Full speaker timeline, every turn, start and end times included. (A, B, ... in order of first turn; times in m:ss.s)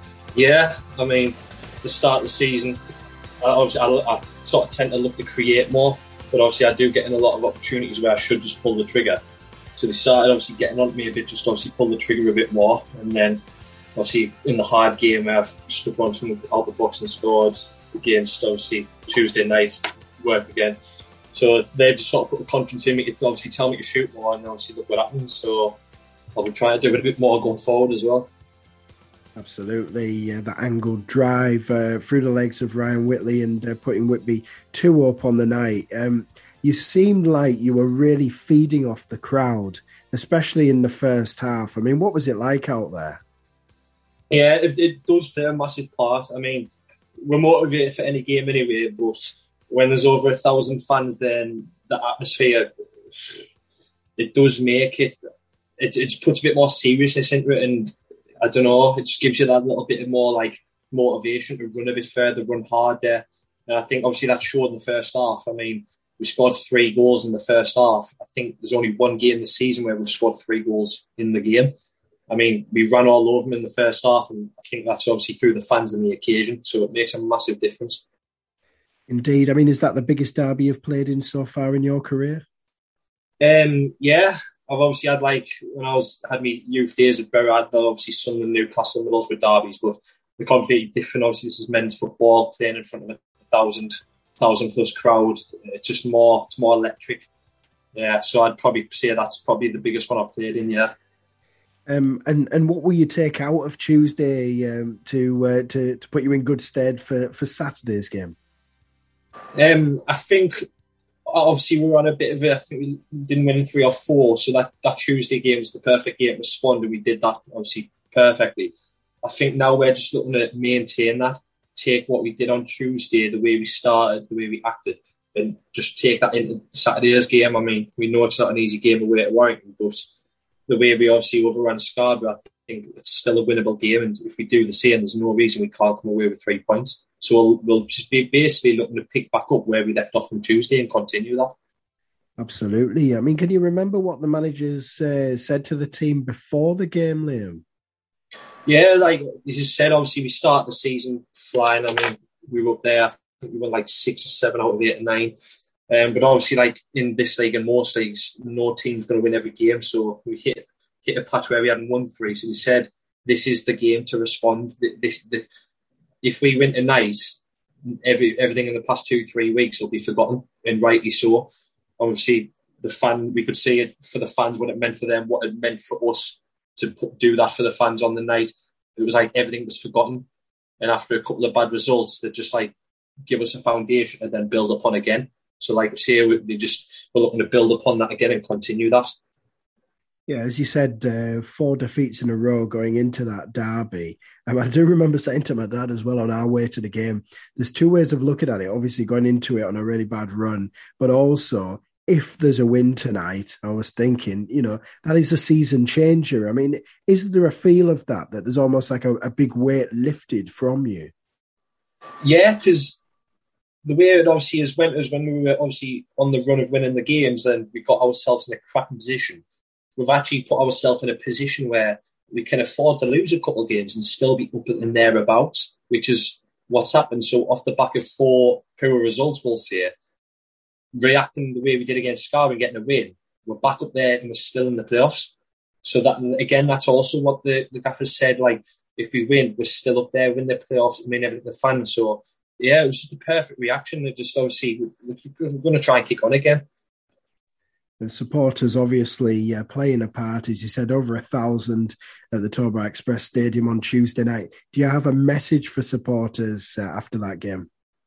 0:00.3-0:02.8 A
0:03.4-0:09.2 A
0:09.8-0:13.4 A
0:14.0-0:20.8 A
0:21.3-0:25.8 A
0:26.3-0:28.3 A
0:29.4-0:43.2 B
0:44.3-0:46.7 A
0:47.2-0:53.4 A
0:54.2-0:55.2 A
0:55.8-1:11.7 A
1:12.3-1:18.0 A
1:19.1-1:22.4 B
1:23.4-1:37.3 A
1:37.9-1:40.9 A
1:41.9-1:48.3 B
1:49.5-1:50.6 A
1:51.3-1:58.7 A
1:59.2-2:10.1 A
2:10.7-2:21.5 A
2:22.4-2:27.6 B
2:28.6-2:35.3 A
2:35.9-2:45.4 A
2:46.2-3:00.3 A
3:00.8-3:02.7 A
3:03.3-3:09.1 A
3:10.3-3:31.1 B
3:32.2-3:33.0 A
3:33.8-3:39.4 A
3:40.0-3:49.9 A
3:50.9-4:06.6 A
4:08.0-4:17.7 B